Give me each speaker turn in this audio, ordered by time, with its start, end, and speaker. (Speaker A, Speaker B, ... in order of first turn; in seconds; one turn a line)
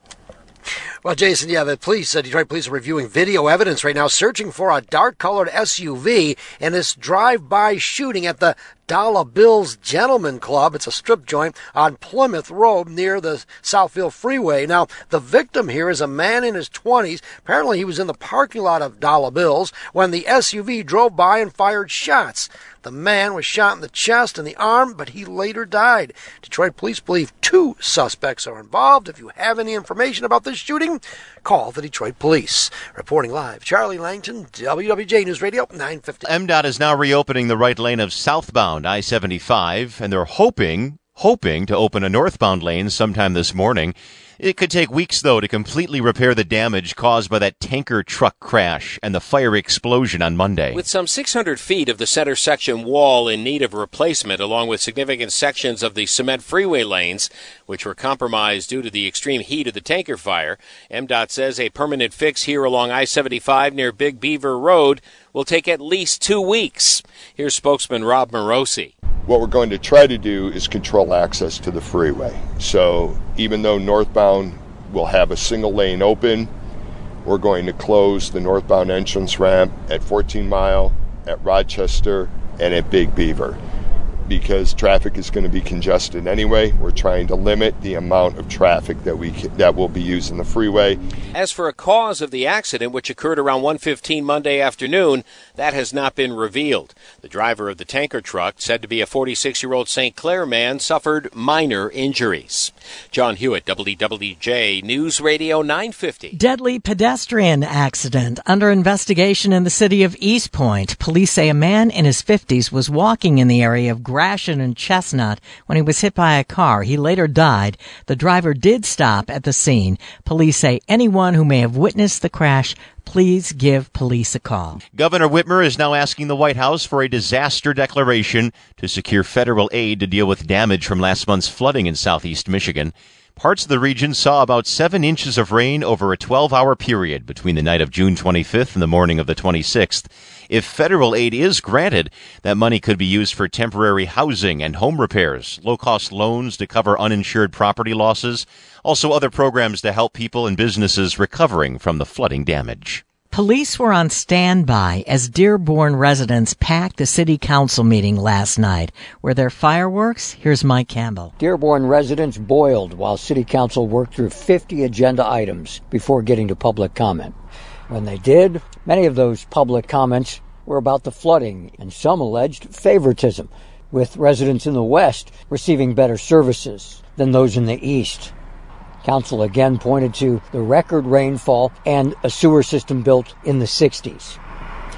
Speaker A: 1.0-36.2
Speaker B: 36.3-50.8
Speaker C: 50.8-68.9
Speaker D: 69.3-76.5
Speaker D: 77.2-83.6
Speaker D: 84.3-91.0
Speaker C: 91.3-106.3
Speaker E: 106.3-124.8
Speaker B: 124.9-153.0
Speaker E: 153.3-161.3
Speaker F: 161.4-167.3
Speaker F: 167.9-178.3
Speaker F: 179.0-184.4